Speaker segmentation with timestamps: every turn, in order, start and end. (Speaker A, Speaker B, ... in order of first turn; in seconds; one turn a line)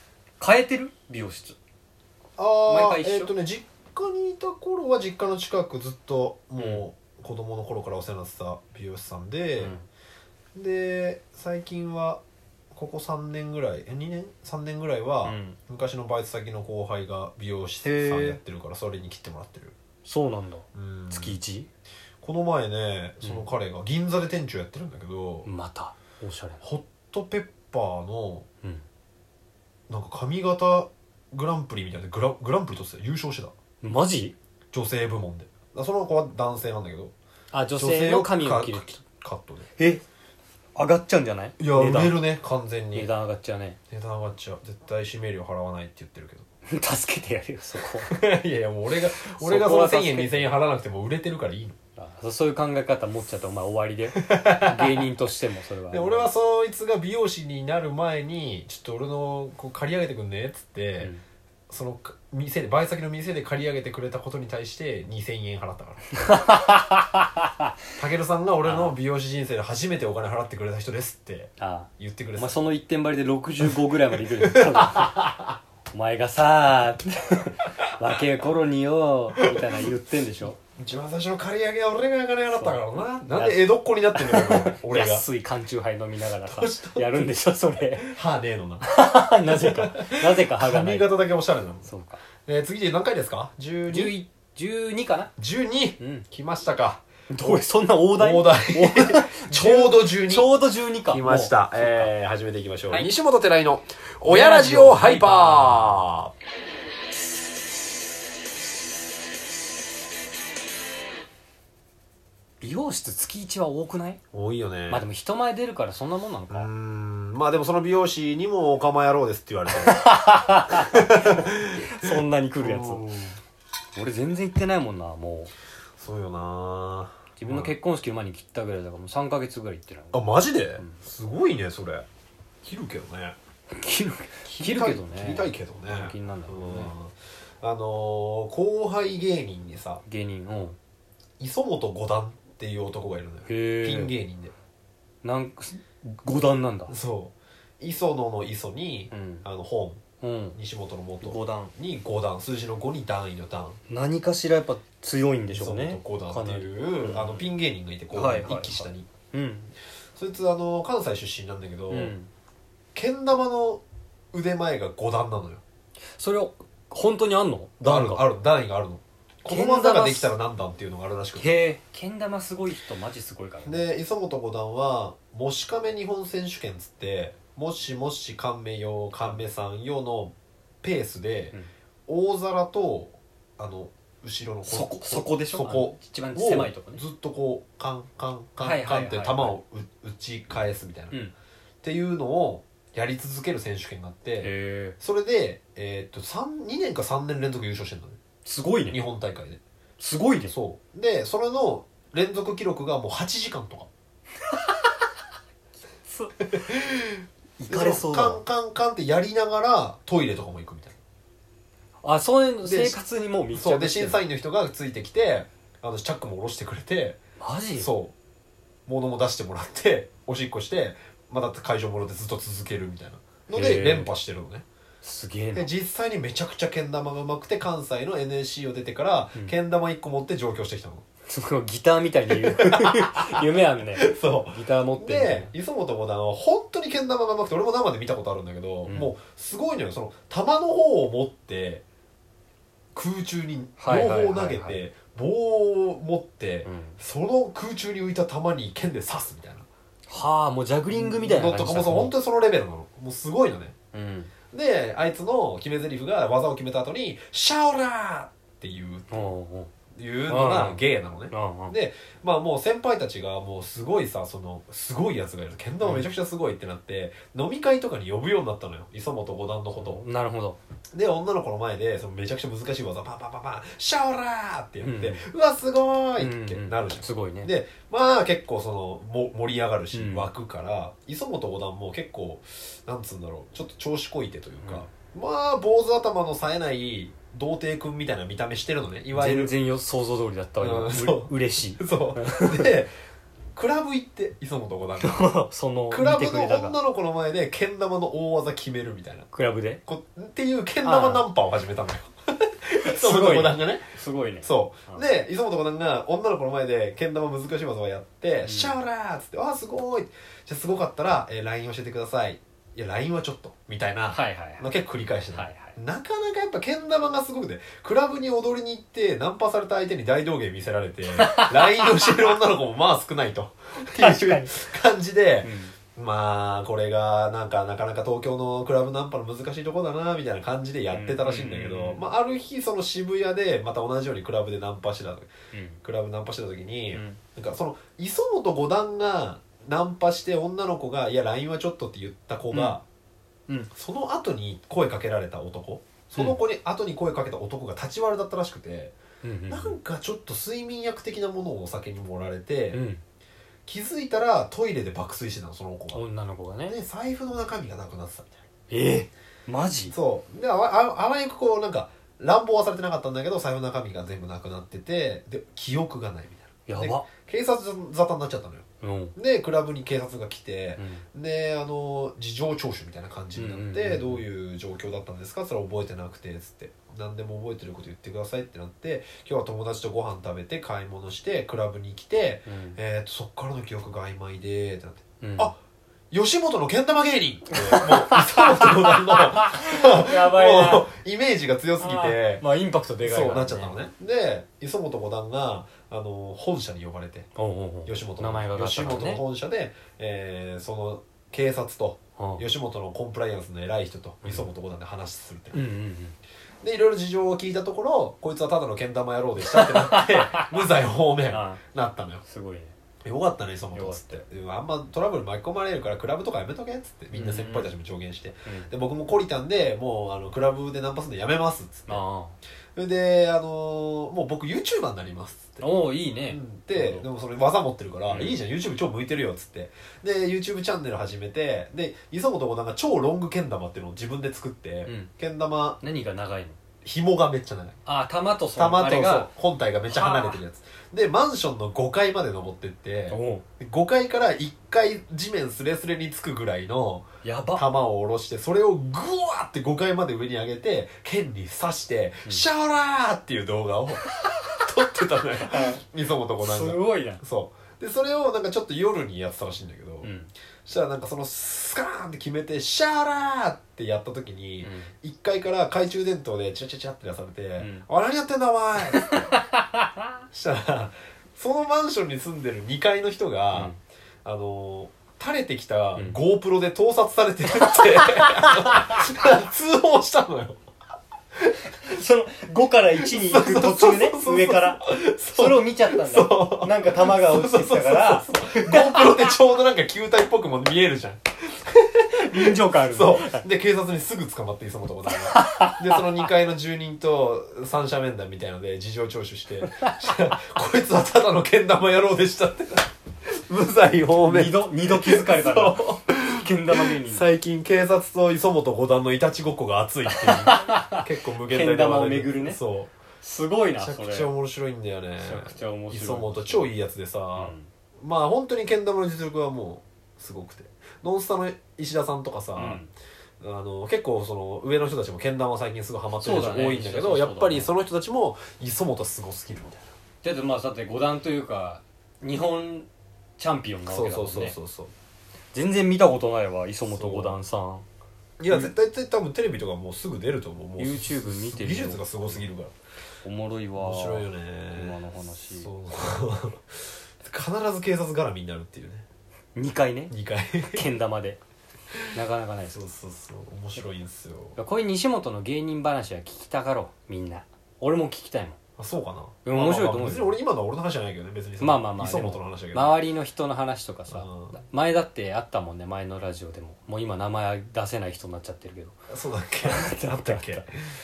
Speaker A: 0.4-1.6
Speaker B: 2.4-9.8
Speaker A: 2.7-3.3
Speaker A: 6.6-6.8
Speaker A: 9.6-9.8
Speaker B: 10.5-12.2
Speaker B: 12.7-19.7
Speaker A: 15.2-15.6
Speaker A: 17.8-18.4
Speaker A: 20.0-21.7
Speaker B: 20.7-21.4
Speaker B: 22.2-25.5
Speaker A: 23.2-23.4
Speaker A: 25.4-26.6
Speaker B: 26.6-28.4
Speaker B: 29.9-33.5
Speaker A: 33.8-34.3
Speaker B: 34.7-37.1
Speaker A: 37.5-39.0
Speaker B: 37.8-39.7
Speaker A: 39.8-40.0
Speaker A: 40.7-42.3
Speaker B: 41.6-43.1
Speaker A: 42.9-43.8
Speaker B: 43.9-46.5
Speaker A: 46.7-48.1
Speaker B: 48.1-51.8
Speaker A: 49.2-50.5
Speaker A: 52.0-56.3
Speaker B: 54.1-55.0
Speaker B: 55.9-61.1
Speaker B: 61.7-66.1
Speaker A: 66.2-67.6
Speaker B: 68.0-72.6
Speaker A: 68.6-69.0
Speaker A: 71.6-75.2
Speaker B: 74.4-75.4
Speaker A: 75.9-80.6
Speaker B: 80.8-85.2
Speaker A: 82.5-88.2
Speaker B: 86.4-87.3
Speaker B: 87.9-88.9
Speaker A: 88.8-91.1
Speaker B: 89.4-91.9
Speaker A: 91.8-92.2
Speaker B: 92.4-94.2
Speaker A: 93.9-95.3
Speaker B: 95.4-100.5
Speaker A: 96.0-96.2
Speaker A: 97.3-102.1
Speaker B: 101.1-106.3
Speaker A: 104.2-106.0
Speaker A: 112.6-114.2
Speaker B: 114.3-115.0
Speaker A: 114.9-116.7
Speaker B: 116.5-120.0
Speaker A: 119.8-123.1
Speaker B: 120.7-121.8
Speaker B: 122.6-123.3
Speaker A: 123.9-125.5
Speaker B: 126.0-127.7
Speaker A: 127.4-130.9
Speaker B: 130.1-132.1
Speaker B: 132.6-133.3
Speaker A: 133.8-136.9
Speaker B: 134.6-140.0
Speaker A: 140.1-140.8
Speaker B: 141.4-144.5
Speaker A: 143.4-144.1
Speaker A: 145.2-146.9
Speaker B: 146.9-150.0
Speaker A: 149.1-149.4
Speaker A: 150.2-150.6
Speaker B: 150.5-153.8
Speaker A: 151.2-151.7
Speaker A: 153.9-157.5
Speaker B: 155.5-159.1
Speaker A: 158.1-159.7
Speaker B: 160.2-162.2
Speaker A: 161.9-162.3
Speaker B: 162.9-165.6
Speaker A: 166.2-168.2
Speaker B: 167.8-171.5
Speaker A: 169.5-170.3
Speaker A: 171.3-173.9
Speaker B: 173.6-191.2
Speaker A: 184.7-187.0
Speaker A: 188.6-189.6
Speaker B: 191.8-198.2
Speaker A: 194.4-195.0
Speaker A: 198.4-199.0
Speaker B: 198.9-199.6
Speaker A: 200.0-200.5
Speaker B: 200.5-203.9
Speaker A: 206.1-206.5
Speaker B: 206.6-211.0
Speaker A: 207.6-208.4
Speaker A: 212.0-214.2
Speaker B: 212.6-213.0
Speaker B: 213.5-217.2
Speaker A: 217.4-217.9
Speaker B: 217.8-218.1
Speaker B: 218.9-224.6
Speaker A: 223.5-224.1
Speaker A: 225.0-225.7
Speaker B: 225.5-231.0
Speaker A: 231.3-235.5
Speaker B: 232.3-233.3
Speaker B: 233.9-241.8
Speaker A: 238.8-239.1
Speaker B: 242.9-249.7
Speaker A: 243.8-244.9
Speaker A: 246.6-247.0
Speaker A: 250.1-252.1
Speaker B: 250.9-253.7
Speaker A: 253.9-254.3
Speaker B: 254.5-259.3
Speaker A: 259.1-259.7
Speaker B: 259.9-270.0
Speaker A: 260.3-261.8
Speaker A: 265.8-266.1
Speaker A: 269.8-270.6
Speaker B: 270.9-289.5
Speaker A: 274.8-275.2
Speaker A: 276.2-277.5
Speaker A: 279.9-280.3
Speaker A: 284.6-284.9
Speaker A: 289.1-292.7
Speaker B: 290.6-292.9
Speaker B: 293.5-295.2
Speaker A: 295.0-296.8
Speaker B: 295.9-299.3
Speaker A: 299.3-299.8
Speaker B: 299.9-303.9
Speaker A: 300.8-301.2
Speaker A: 302.8-305.1
Speaker B: 304.4-335.3
Speaker A: 308.4-308.8
Speaker A: 314.1-314.7
Speaker A: 315.3-315.7
Speaker A: 321.2-322.3
Speaker A: 323.9-324.5
Speaker A: 325.4-325.8
Speaker A: 330.9-332.0
Speaker A: 335.5-335.8
Speaker B: 335.8-342.8
Speaker A: 336.9-337.2
Speaker A: 342.5-342.8
Speaker B: 343.7-348.9
Speaker A: 349.2-349.8
Speaker B: 349.5-352.8
Speaker A: 352.7-353.0
Speaker B: 353.6-356.0
Speaker A: 355.9-356.8
Speaker B: 356.7-358.4
Speaker A: 358.7-359.9
Speaker B: 359.9-368.6
Speaker A: 366.7-367.1
Speaker A: 368.8-369.1
Speaker B: 369.1-385.6
Speaker A: 370.8-371.0
Speaker A: 373.3-374.2
Speaker A: 382.4-382.8
Speaker A: 385.2-385.5
Speaker B: 386.1-392.4
Speaker A: 387.5-390.9
Speaker A: 391.8-393.8
Speaker B: 393.0-397.3
Speaker A: 397.4-399.2
Speaker B: 397.9-405.6
Speaker A: 402.2-402.4
Speaker A: 404.2-404.5
Speaker A: 405.5-406.2
Speaker B: 406.6-412.2
Speaker A: 409.5-410.5
Speaker A: 411.3-411.6
Speaker A: 412.2-412.7
Speaker B: 413.0-422.0
Speaker A: 413.7-414.2
Speaker A: 417.1-417.7
Speaker A: 418.4-418.7
Speaker A: 421.9-422.4
Speaker B: 422.7-425.7
Speaker A: 425.6-427.1
Speaker B: 426.3-435.8
Speaker A: 428.1-428.4
Speaker A: 434.8-435.1
Speaker A: 435.8-436.6
Speaker B: 436.8-437.8
Speaker A: 437.9-439.3
Speaker B: 438.5-460.1
Speaker A: 439.9-440.4
Speaker A: 443.1-443.4
Speaker A: 447.2-447.7
Speaker A: 454.0-454.4
Speaker A: 455.5-455.8
Speaker A: 456.4-457.2
Speaker A: 460.0-460.3
Speaker B: 460.6-469.3
Speaker A: 464.6-464.9
Speaker A: 467.6-467.9
Speaker A: 469.0-469.8
Speaker B: 470.3-473.7
Speaker A: 473.5-473.8
Speaker B: 474.2-480.6
Speaker A: 478.0-478.5
Speaker A: 481.8-489.3
Speaker B: 483.0-502.9
Speaker A: 492.1-493.4
Speaker A: 495.3-496.0
Speaker B: 503.5-512.9
Speaker A: 504.2-507.3
Speaker A: 510.1-512.6
Speaker A: 513.2-514.3
Speaker B: 513.7-522.8
Speaker A: 515.2-516.7
Speaker A: 517.4-517.7
Speaker A: 522.5-522.9
Speaker B: 523.4-529.9
Speaker A: 526.2-527.7
Speaker A: 530.2-534.5
Speaker B: 533.9-534.9
Speaker A: 535.5-537.9
Speaker B: 536.9-537.4
Speaker B: 538.4-542.7
Speaker A: 538.5-538.7
Speaker A: 540.8-542.4
Speaker A: 543.2-545.7
Speaker B: 543.7-549.1
Speaker A: 549.5-550.1
Speaker B: 550.1-550.9
Speaker A: 550.7-551.4
Speaker A: 552.1-552.8
Speaker B: 552.7-554.6
Speaker A: 554.6-558.6
Speaker B: 558.8-563.0
Speaker A: 559.4-560.4
Speaker A: 561.6-569.0
Speaker B: 564.1-564.6
Speaker B: 569.1-570.6
Speaker A: 569.6-570.6